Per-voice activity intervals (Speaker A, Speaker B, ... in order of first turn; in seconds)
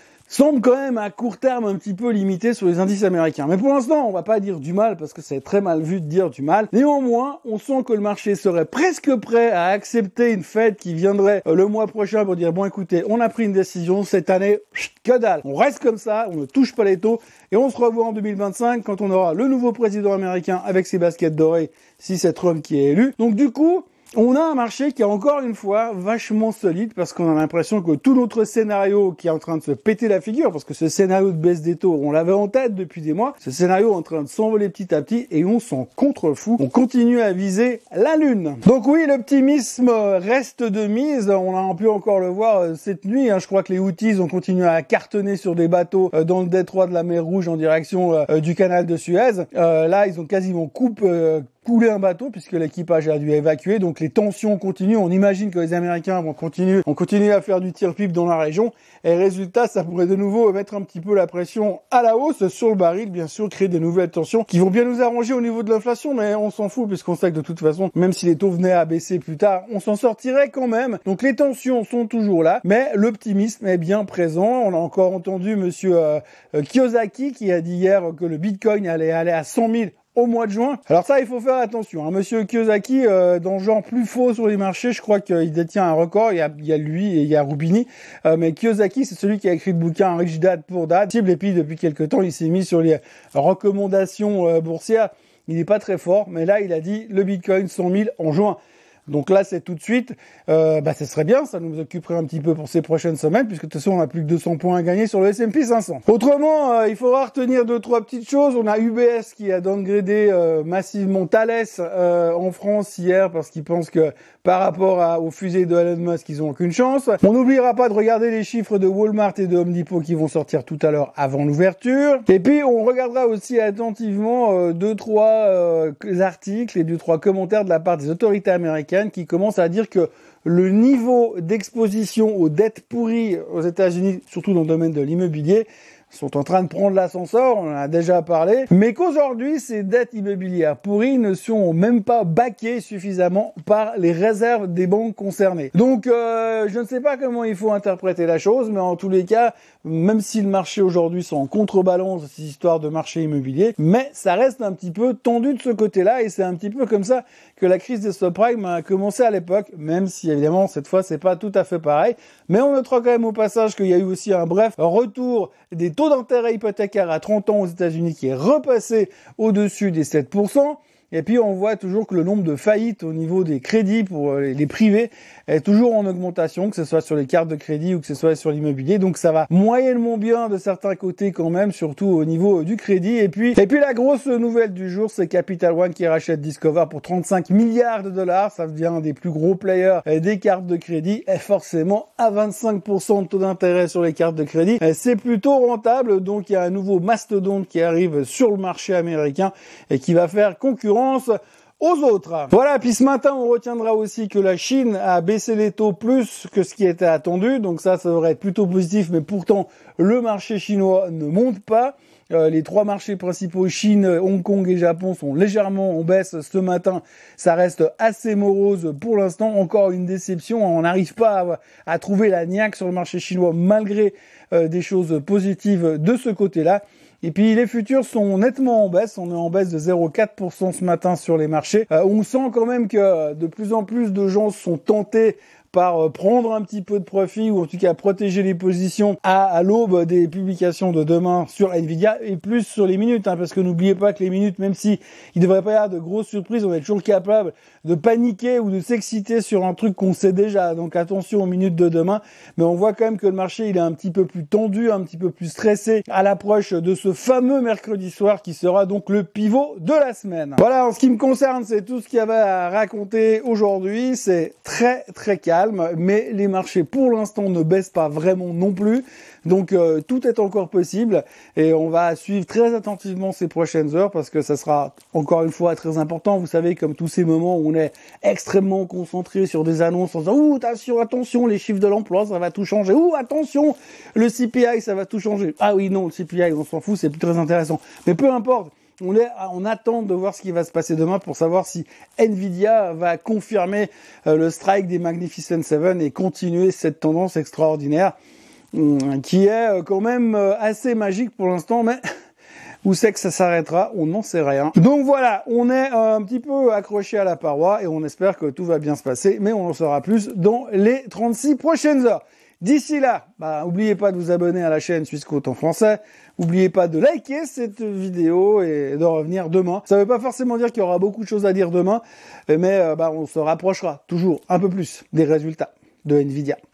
Speaker A: 0.3-98.6, 99.1-298.1, 298.7-302.0, 302.8-326.6